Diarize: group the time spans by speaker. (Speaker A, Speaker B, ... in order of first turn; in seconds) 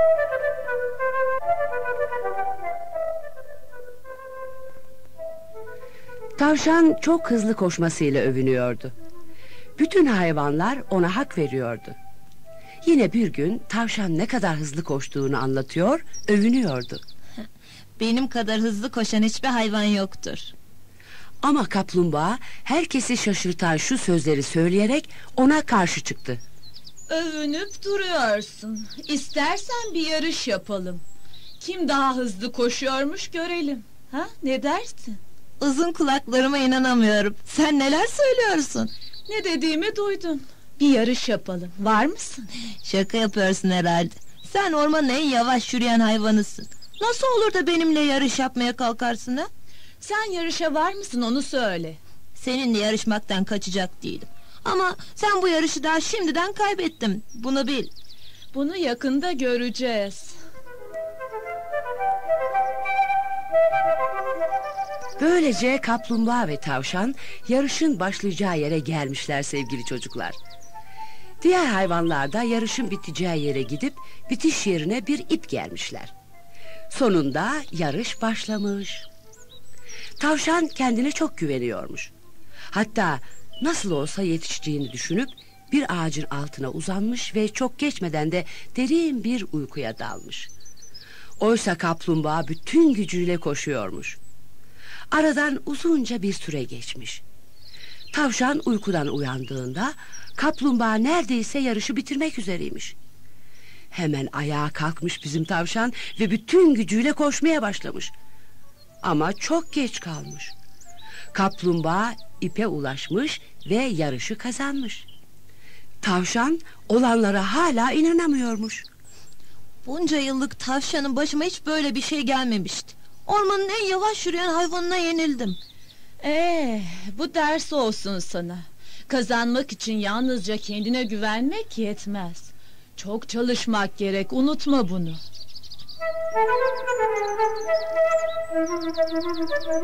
Speaker A: 6.4-8.9, 9.8-12.0, 12.8-17.0, 21.4-26.4, 65.2-70.4, 71.4-76.1, 76.9-79.1, 80.2-82.1, 82.7-90.5, 91.4-94.2, 95.1-97.2, 98.1-103.0, 103.9-108.1, 109.0-110.5, 111.3-115.1, 116.0-118.9
Speaker B: 18.0-20.5, 35.6-38.9, 42.8-49.5, 52.4-57.9, 119.8-125.6
Speaker C: 27.1-31.0, 31.6-35.2, 39.3-42.5, 50.0-52.0, 58.5-60.4, 126.2-135.2